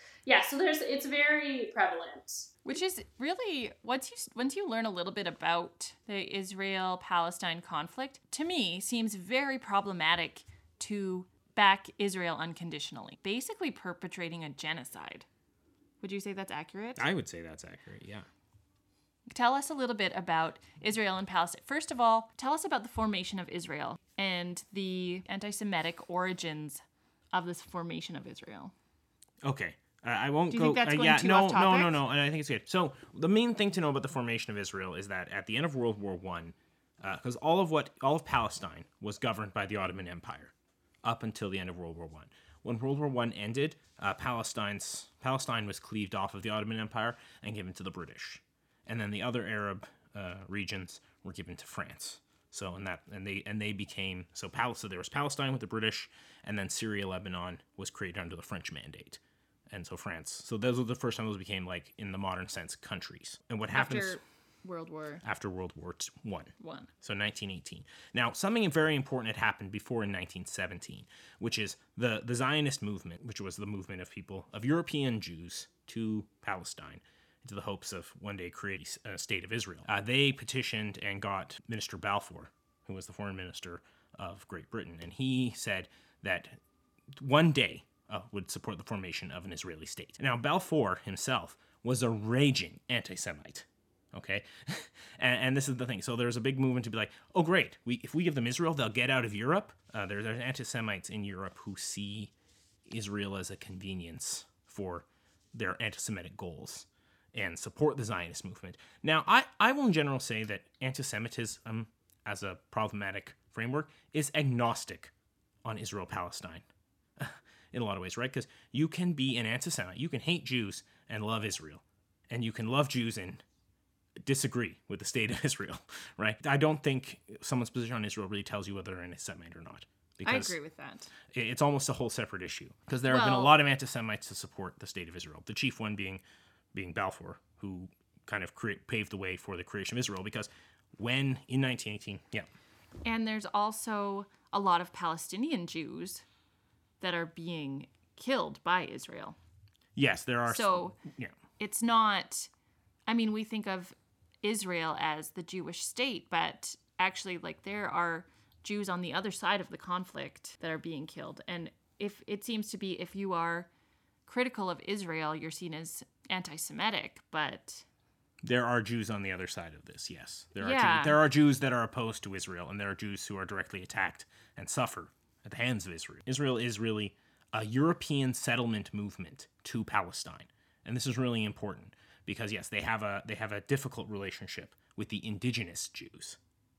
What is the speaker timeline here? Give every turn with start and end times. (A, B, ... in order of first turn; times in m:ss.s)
0:00.2-0:02.5 A
0:02.6-0:15.2 B
0:16.0-0:17.0 B
0:17.0-0:18.2 C
0:19.3-0:28.7 B
0:29.4-0:40.5 C
0:30.5-0:31.9 B
0:41.0-1:04.2 C
1:03.7-1:05.2 B
1:05.2-1:26.6 C
1:06.6-1:06.9 B
1:27.1-1:42.3 C
1:42.9-1:55.1 C
1:55.6-1:56.6 C
1:57.2-2:03.4 C
2:04.2-2:10.6 C
2:10.2-2:11.1 B
2:11.3-2:16.2 C
2:13.1-2:13.6 B
2:16.7-2:22.5 C
2:23.0-2:26.2 B
2:27.0-2:29.4 B
2:29.9-2:31.4 C
2:30.5-2:31.0 B
2:31.6-2:32.5 B
2:33.1-2:43.7 B
2:44.2-2:47.8 B
2:48.4-3:06.4 C
2:50.6-2:51.2 B